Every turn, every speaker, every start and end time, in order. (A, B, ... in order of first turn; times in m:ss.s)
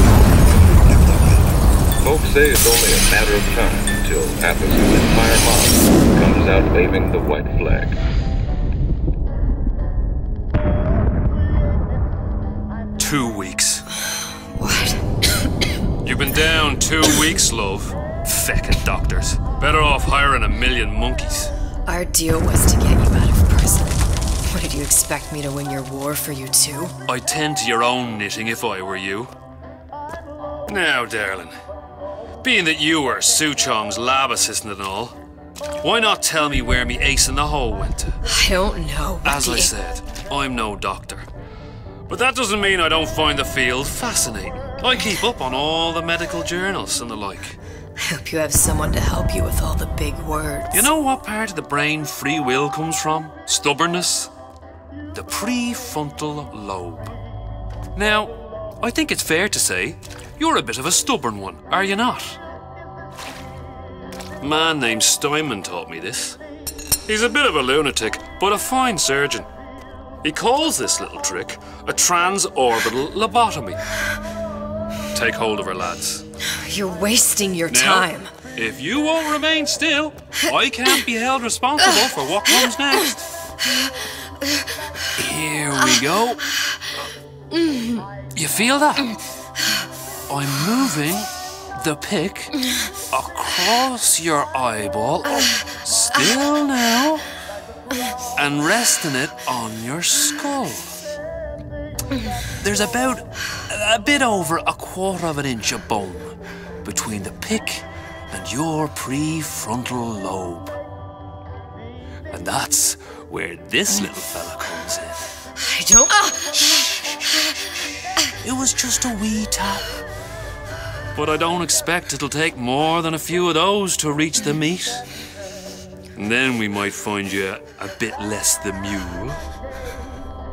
0:02.0-0:08.0 A
0:13.0-0:13.9 B
0:14.6-0:15.0 C
0:16.0-0:21.5 B
0:21.9-0:26.9 C
0:27.1-0:29.3 B
0:30.7-0:31.6 B
0:32.4-0:35.2 B
0:35.8-0:38.2 B
0:38.3-0:39.7 C
0:39.2-0:41.3 B
0:42.1-0:47.6 B
0:48.0-0:50.9 C
0:50.7-0:54.3 B
0:55.1-0:57.2 B
0:58.0-1:02.4 B
1:04.4-1:06.4 B
1:07.1-1:09.5 B
1:10.2-1:13.8 B
1:15.1-1:16.2 B
1:16.6-1:18.3 C
1:17.7-1:23.2 B
1:25.2-1:26.4 B
1:27.5-1:28.1 C
1:28.3-1:29.2 B
1:30.3-1:32.5 B
1:33.1-1:37.3 B
1:38.4-1:40.9 B
1:42.6-1:50.8 B
1:52.3-1:55.2 B
1:55.6-1:56.8 C
1:56.6-1:56.9 B
1:58.4-2:00.0 B
2:01.2-2:05.0 B
2:06.2-2:09.4 B